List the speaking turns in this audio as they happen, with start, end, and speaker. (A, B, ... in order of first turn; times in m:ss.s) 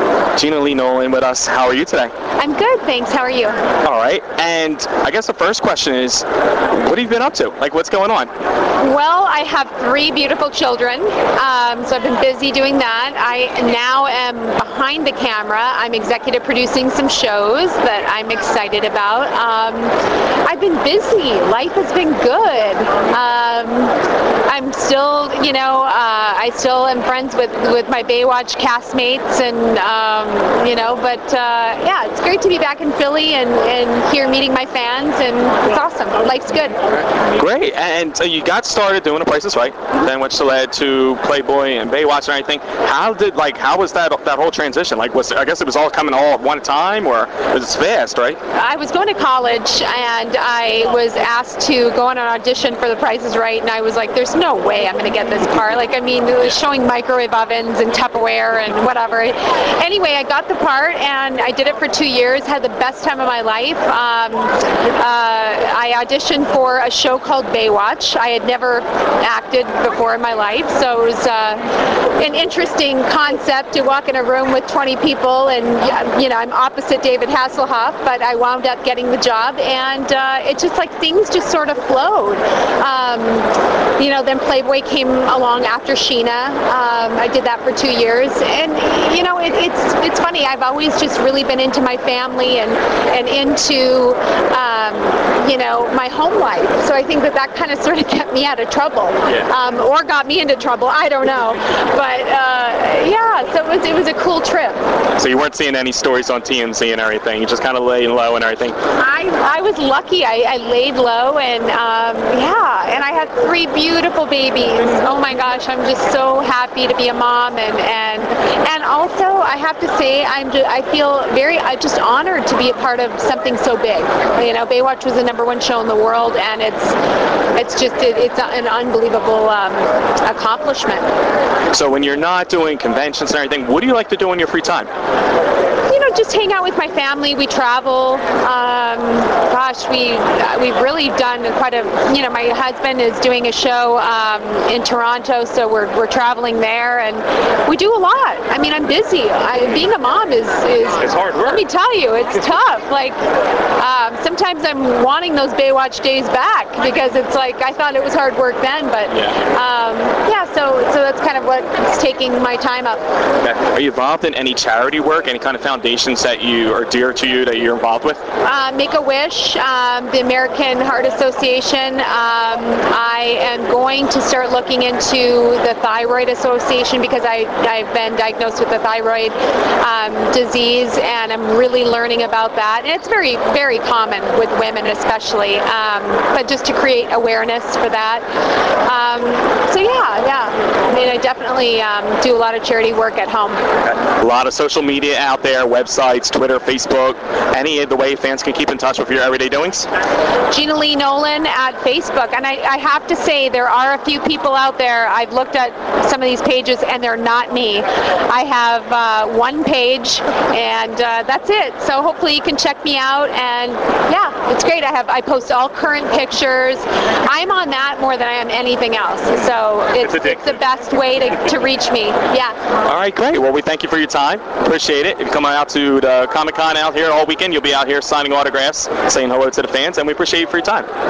0:00.4-0:02.1 A
0:02.4-0:03.6 B
0:03.8-0:08.3 A
0:08.8-0:36.8 B
0:37.4-0:48.4 A
0:48.5-1:11.6 B
1:12.2-1:44.8 B
1:45.2-1:48.8 A
1:49.0-2:07.0 B
2:07.6-2:11.1 B
2:11.7-2:14.9 A
2:15.9-2:33.2 B
2:31.0-2:31.6 A
2:33.8-2:43.0 B
2:39.1-2:39.4 A
2:43.4-2:48.2 A
2:48.4-3:08.3 B
3:08.8-3:13.6 B
3:14.0-3:19.9 A
3:20.5-3:42.6 B
3:40.0-3:40.4 A
3:42.9-3:50.9 A